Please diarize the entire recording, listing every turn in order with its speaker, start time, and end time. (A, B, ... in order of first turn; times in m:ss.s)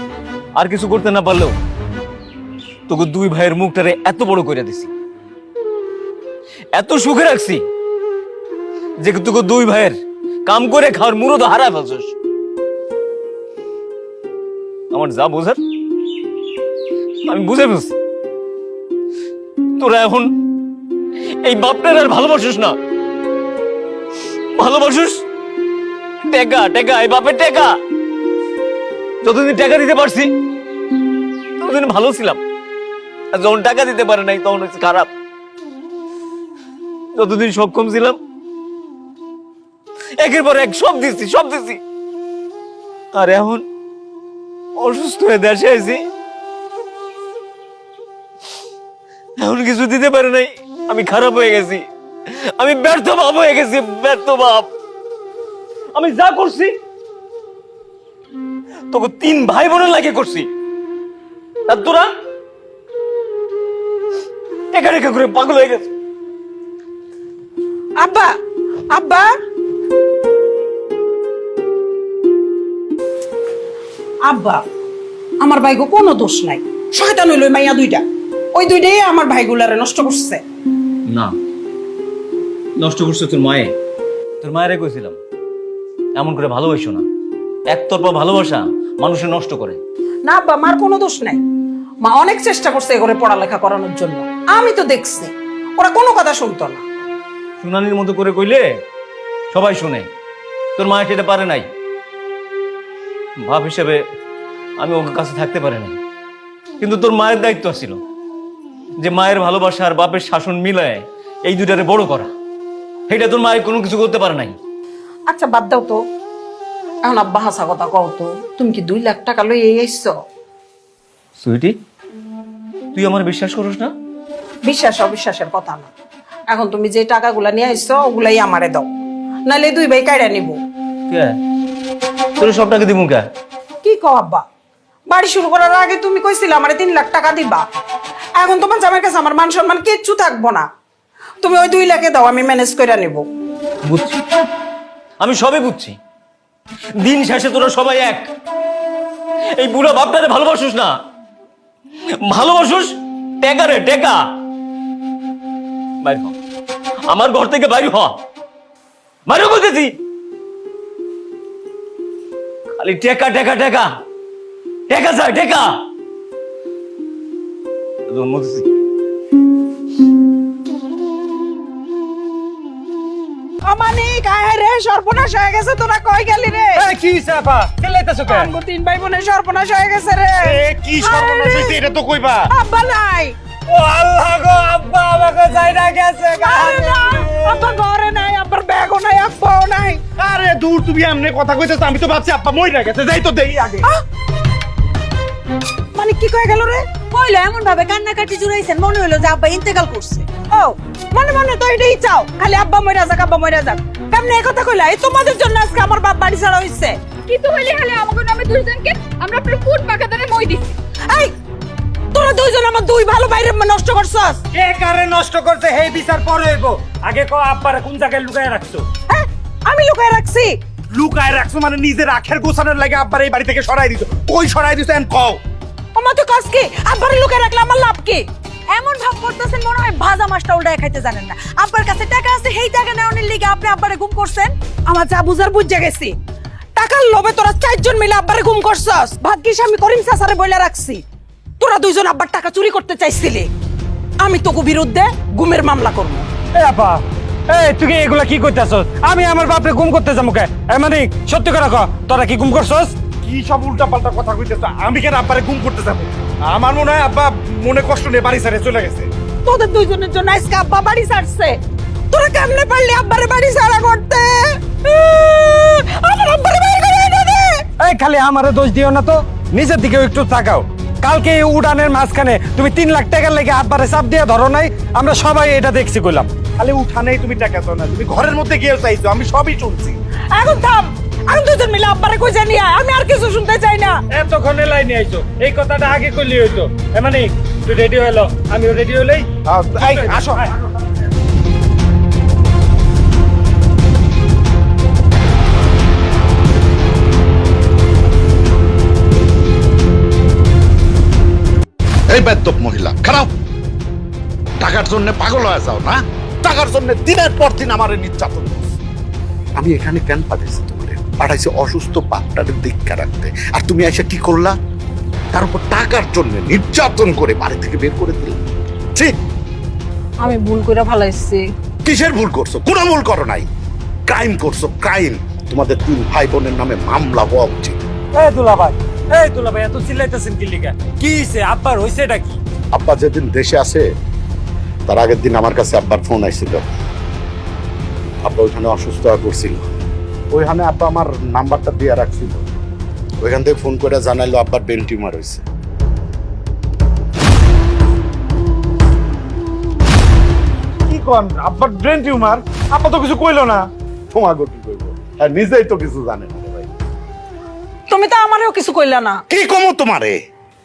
0:00.5-0:01.6 A
0:02.9-0:04.9 A
0:06.7-0:07.6 A
0:09.0-0:09.9 A
0:10.4-0:12.1 A
0:14.9-0:15.6 A
0:17.2-0:17.9 A
0:19.8-0:20.3 A
0:21.4-0:22.8 A
0:24.5-0:25.2 A
0:26.3-0:27.7 A
0:29.2-0:30.3 A
0:31.6-0:32.4 A
0:33.3-0:35.1 A
0:37.2-0:38.2 A
0:40.2-0:41.8 A
0:43.1-0:43.6 A
0:44.8-0:46.0 A
0:49.4-0:54.7 A
0:55.9-0:56.8 A
0:58.9-1:00.5 A
1:01.7-1:02.1 A
1:04.7-1:05.9 A
1:08.0-1:08.3 B
1:08.9-1:09.2 B
1:14.2-1:14.6 B
1:15.4-1:18.0 B
1:18.5-1:20.4 B
1:22.8-1:23.7 A
1:24.4-1:25.2 A
1:26.2-1:27.0 A
1:27.7-1:29.8 A
1:30.2-1:31.4 B
1:32.0-1:36.8 B
1:37.6-1:38.6 A
1:39.5-1:40.1 A
1:40.8-1:41.6 A
1:43.4-1:44.0 A
1:44.8-1:46.0 A
1:46.8-1:48.0 A
1:49.0-1:52.3 A
1:53.1-1:54.6 A
1:55.3-1:56.0 B
1:57.0-2:00.1 B
2:01.4-2:01.7 A
2:02.9-2:03.9 A
2:04.6-2:05.9 B
2:06.5-2:08.9 B
2:09.4-2:10.6 B
2:11.1-2:11.4 A
2:12.4-2:13.2 A
2:13.8-2:14.4 B
2:15.1-2:17.6 B
2:18.4-2:20.7 B
2:21.4-2:23.2 B
2:23.8-2:24.5 A
2:25.2-2:26.0 A
2:27.0-2:28.3 A
2:29.6-2:30.9 A
2:32.2-2:34.2 A
2:36.0-2:36.3 A
2:37.1-2:38.2 A
2:39.3-2:40.0 A
2:42.7-2:43.9 A
2:44.9-2:45.7 A
2:48.1-2:48.7 A
2:53.6-2:56.8 B
2:56.7-2:58.5 C
2:58.3-3:01.8 B
3:00.4-3:02.5 D
3:02.5-3:03.4 B
3:03.7-3:07.3 C
3:06.4-3:10.0 B
3:10.2-3:13.9 D
3:15.9-3:17.0 B
3:17.1-3:20.3 E
3:20.5-3:27.0 B
3:27.3-3:30.7 F
3:32.1-3:34.4 B
3:34.5-3:38.8 C
3:39.1-3:40.6 B
3:40.9-3:45.4 D
3:45.9-3:48.2 B
3:48.7-3:54.5 E
3:50.9-3:51.1 B
3:54.9-3:56.1 B
3:56.8-4:01.0 B
4:01.6-4:03.5 B
4:04.2-4:06.3 B
4:06.5-4:13.0 C
4:13.2-4:19.1 D
4:19.4-4:21.6 B
4:22.1-4:27.6 B
4:27.8-4:36.3 C
4:36.5-4:40.0 D
4:40.3-4:44.0 B
4:44.1-4:50.5 C
4:49.5-4:50.5 D
5:02.1-5:03.3 G
5:04.6-5:08.8 G
5:09.6-5:14.5 G
5:15.3-5:18.4 G
5:20.2-5:21.4 B
5:21.8-5:23.5 G
5:24.1-5:27.9 G
5:28.1-5:32.4 C
5:32.7-5:33.8 G
5:34.9-5:36.7 G
5:38.2-5:39.6 G
5:40.3-5:42.4 G
5:43.2-5:45.4 G
5:50.9-5:53.6 D
5:54.1-5:56.7 G
5:57.9-5:59.2 B
5:59.3-6:00.2 G